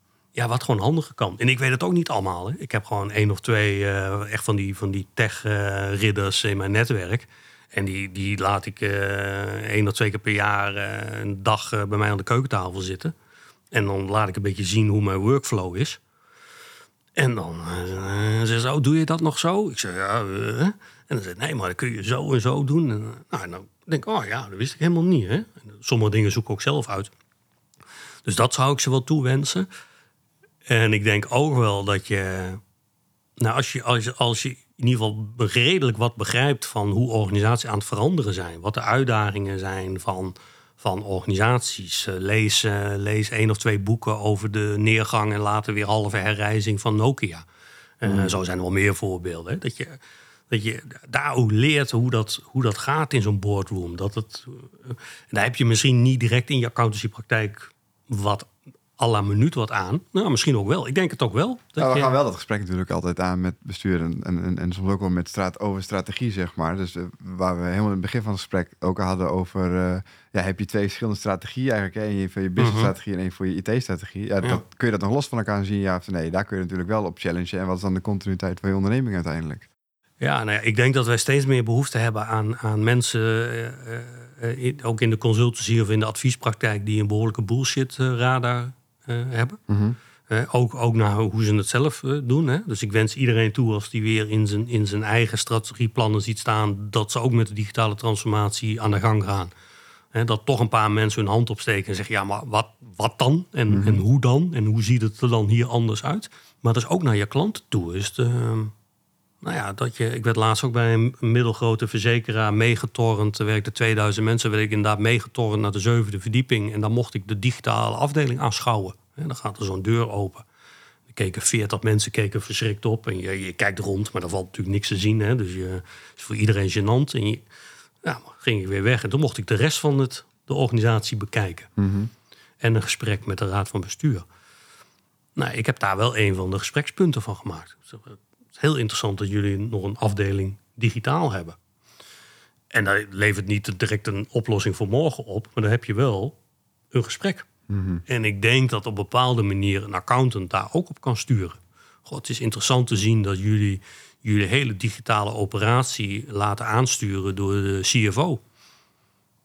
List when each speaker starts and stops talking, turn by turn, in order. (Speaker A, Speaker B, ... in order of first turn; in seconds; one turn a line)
Speaker A: 0.3-13.1
Speaker A: 13.7-16.0
Speaker A: 17.1-27.1
Speaker A: 28.2-29.7
Speaker A: 30.6-32.6
Speaker A: 33.4-47.5
Speaker A: 48.0-50.0
Speaker B: 48.0-48.4
Speaker A: 50.5-62.1
Speaker B: 61.8-79.7
Speaker A: 72.6-72.9
Speaker A: 80.2-89.6
Speaker B: 89.7-90.0
Speaker A: 90.3-99.5
Speaker A: 100.1-108.7
Speaker B: 103.7-104.0
Speaker A: 109.4-120.4
Speaker A: 121.1-127.4
Speaker A: 128.0-131.7
Speaker B: 131.8-132.1
Speaker A: 132.6-134.2
Speaker A: 135.3-141.6
Speaker A: 142.7-146.4
Speaker A: 146.9-147.5
Speaker B: 147.7-148.0
Speaker A: 148.1-158.4